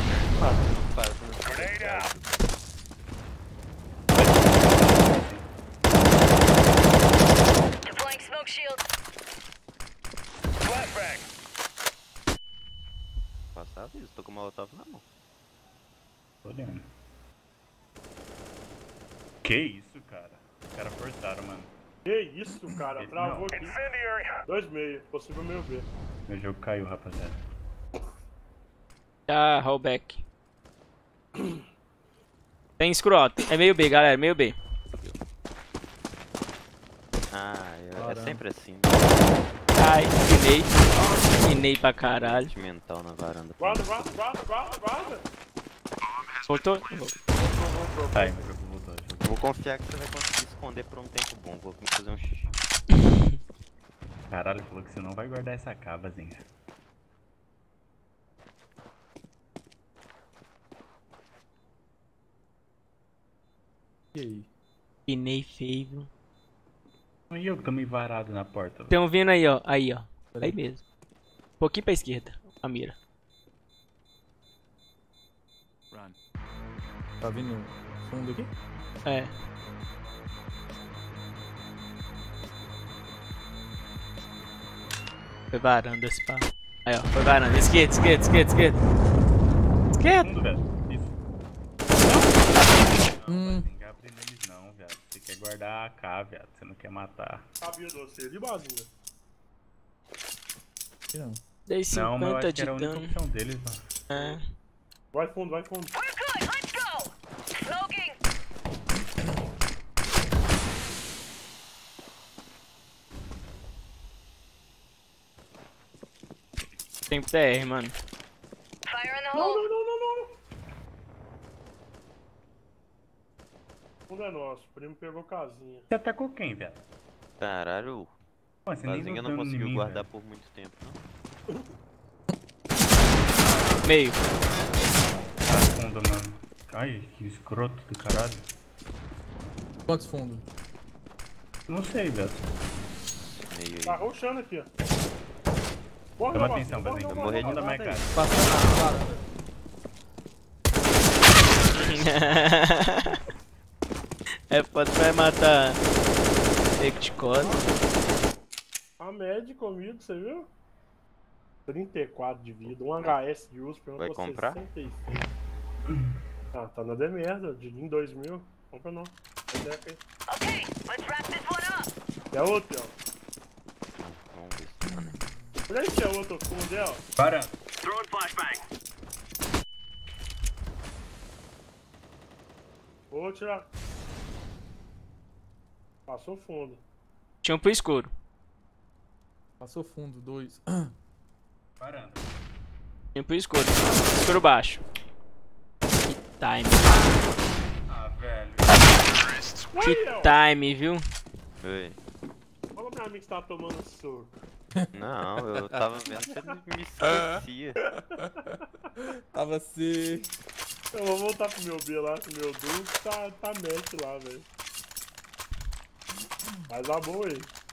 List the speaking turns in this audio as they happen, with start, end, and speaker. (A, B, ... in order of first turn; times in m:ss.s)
0:00.2-0:02.4 A
0:04.1-0:05.5 B
0:07.8-0:08.8 C
0:13.5-0:15.0 A
0:16.4-0:16.8 B
0:19.4-0:21.7 B
0:22.0-0:23.8 D
0:23.0-0:23.6 B
0:24.4-0:25.9 D
0:26.3-0:27.4 B
0:29.3-0:30.2 E
0:31.4-0:31.6 D
0:32.8-0:34.5 E
0:37.3-0:39.4 A
0:38.0-0:38.4 F
0:39.8-0:42.5 E
0:42.0-0:44.2 A
0:43.6-0:45.3 D
0:46.5-0:47.2 E
0:47.3-0:48.5 A
0:48.1-0:49.3 B
0:49.1-0:52.5 A
0:54.3-0:56.4 B
1:04.1-1:04.5 F
1:05.1-1:06.1 E
1:07.3-1:09.0 B
1:08.9-1:10.8 E
1:10.3-1:10.6 F
1:11.6-1:13.0 E
1:17.2-1:18.5 F
1:19.0-1:19.3 E
1:25.5-1:28.8 E
1:29.9-1:30.3 E
1:30.2-1:31.2 B
1:32.0-1:37.4 B
1:33.3-1:33.7 F
1:37.6-1:38.9 D
1:41.1-1:41.4 F
1:41.7-1:43.1 E
1:41.9-1:44.0 B
1:44.1-1:44.4 E
1:45.1-1:45.9 D
1:45.9-1:48.2 C
1:57.1-1:57.9 E
1:58.9-1:59.7 C
1:59.3-2:00.3 D
2:04.1-2:05.9 D
2:05.9-2:06.8 B
2:07.4-2:08.2 A
2:08.6-2:10.0 B
2:08.8-2:11.0 A
2:13.8-2:14.2 E
2:15.5-2:18.4 B
2:19.9-2:20.4 F
2:21.7-2:22.4 B
2:23.2-2:24.0 A
2:23.8-2:24.7 D
2:26.2-2:28.1 D
2:26.3-2:28.5 B
2:27.1-2:27.7 A
2:28.1-2:29.2 F
2:31.7-2:33.2 E
2:34.5-2:35.8 E
2:36.8-2:37.6 E
2:39.0-2:40.5 D
2:41.7-2:45.2 D
2:44.0-2:44.6 A
2:46.5-2:50.0 D
2:50.3-2:51.9 C
2:52.3-2:53.0 D
2:54.0-2:55.2 A
2:55.7-2:57.0 D
2:57.2-2:57.6 B
3:03.1-3:03.7 D
3:06.1-3:06.8 D
3:07.4-3:08.1 E
3:09.6-3:10.9 F
3:11.8-3:12.3 B
3:13.1-3:14.8 E
3:16.0-3:17.0 E
3:17.9-3:19.0 B
3:19.7-3:20.4 D
3:19.8-3:21.0 E
3:21.6-3:22.0 A
3:22.7-3:24.4 D
3:24.9-3:27.8 A
3:27.0-3:30.3 F
3:30.9-3:34.5 D
3:36.7-3:37.5 D